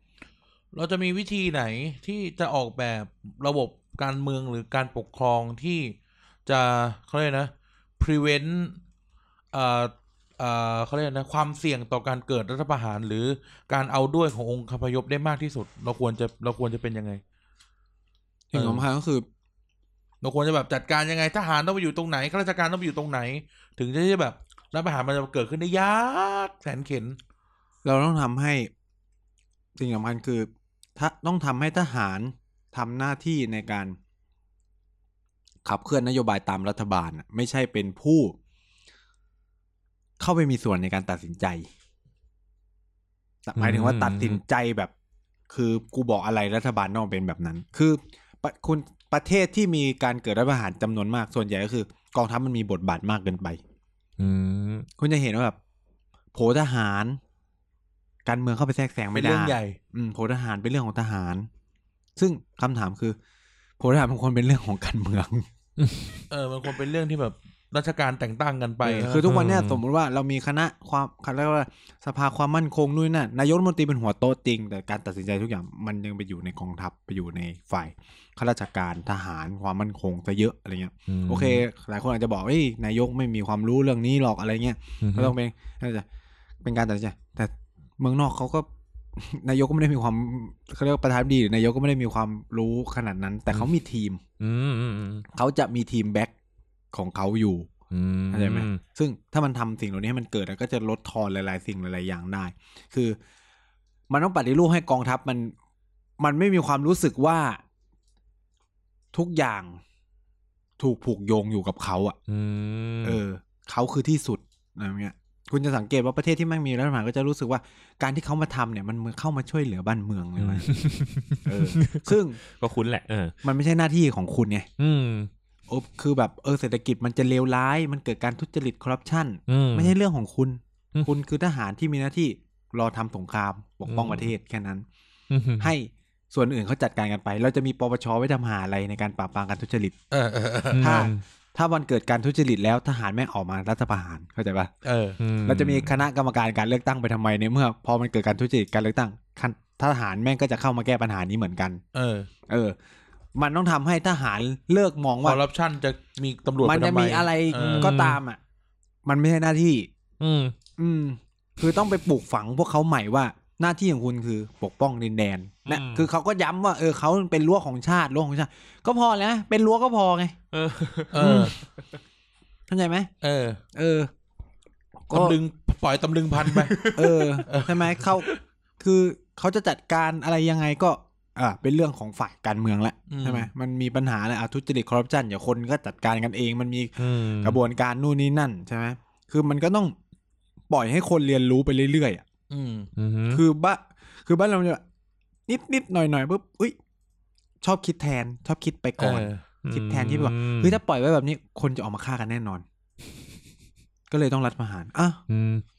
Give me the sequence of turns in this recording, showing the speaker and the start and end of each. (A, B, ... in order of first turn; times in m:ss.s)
0:00.7-0:06.0 A
0:06.5-0:08.8 A
0:09.5-0:17.2 A
0:18.5-0:19.2 B
0:18.5-0:18.8 A
0:20.2-0:27.2 A
0:27.8-0:28.7 B
0:29.8-0:34.0 B
0:35.6-0:38.4 B
0:40.2-0:41.7 B
0:43.5-0:44.9 B
0:43.6-0:44.4 C
0:45.5-0:53.6 B
0:54.2-0:54.9 C
0:55.0-0:55.6 B
0:56.3-0:57.2 B
0:58.2-1:01.5 B
0:59.1-0:59.8 A
1:02.2-1:03.2 B
1:03.8-1:05.5 B
1:05.8-1:06.2 C
1:06.3-1:09.2 A
1:08.8-1:26.0 B
1:09.2-1:09.8 C
1:21.1-1:21.6 C
1:25.0-1:25.3 C
1:26.6-1:34.2 B
1:34.4-1:35.3 C
1:35.3-1:36.3 B
1:36.9-1:37.7 B
1:37.9-1:38.8 C
1:38.3-1:43.2 B
1:44.1-1:45.5 B
1:46.2-1:47.6 B
1:49.1-1:49.8 B
1:50.8-1:52.2 B
1:52.3-1:53.2 C
1:53.0-2:00.7 B
2:00.4-2:03.4 C
2:01.4-2:02.4 B
2:03.4-2:04.7 B
2:04.8-2:05.3 C
2:05.7-2:14.9 B
2:09.5-2:10.0 C
2:13.9-2:14.3 C
2:15.3-2:15.7 C
2:15.6-2:20.0 B
2:20.1-2:21.1 A
2:20.7-2:21.2 C
2:20.8-2:24.7 B
2:24.8-2:25.2 A
2:25.2-2:26.0 C
2:25.5-2:31.8 B
2:31.9-2:32.3 A
2:32.5-2:32.8 B
2:33.4-2:35.4 B
2:35.2-2:38.0 A
2:36.6-2:38.4 B
2:37.6-2:38.2 C
2:39.1-2:39.9 B
2:40.2-2:40.6 C
2:40.8-2:50.4 B
2:45.7-2:46.1 C
2:50.5-2:51.7 C
2:51.1-2:51.6 A
2:51.2-2:51.6 B
2:52.7-2:53.1 B
2:53.2-2:53.6 A
2:53.7-2:54.1 B
2:55.1-2:55.4 B
2:55.1-2:56.9 A
2:56.5-2:57.4 C
2:56.9-2:58.3 B
2:57.5-2:58.3 A
2:58.8-3:10.0 B
3:03.1-3:03.5 A
3:07.0-3:07.6 C
3:10.7-3:12.2 B
3:12.5-3:12.9 A
3:13.0-3:13.4 C
3:13.3-3:14.8 B
3:15.5-3:16.8 B
3:17.6-3:22.6 B
3:19.0-3:19.4 A
3:19.6-3:20.8 C
3:24.1-3:25.2 B
3:25.3-3:25.6 C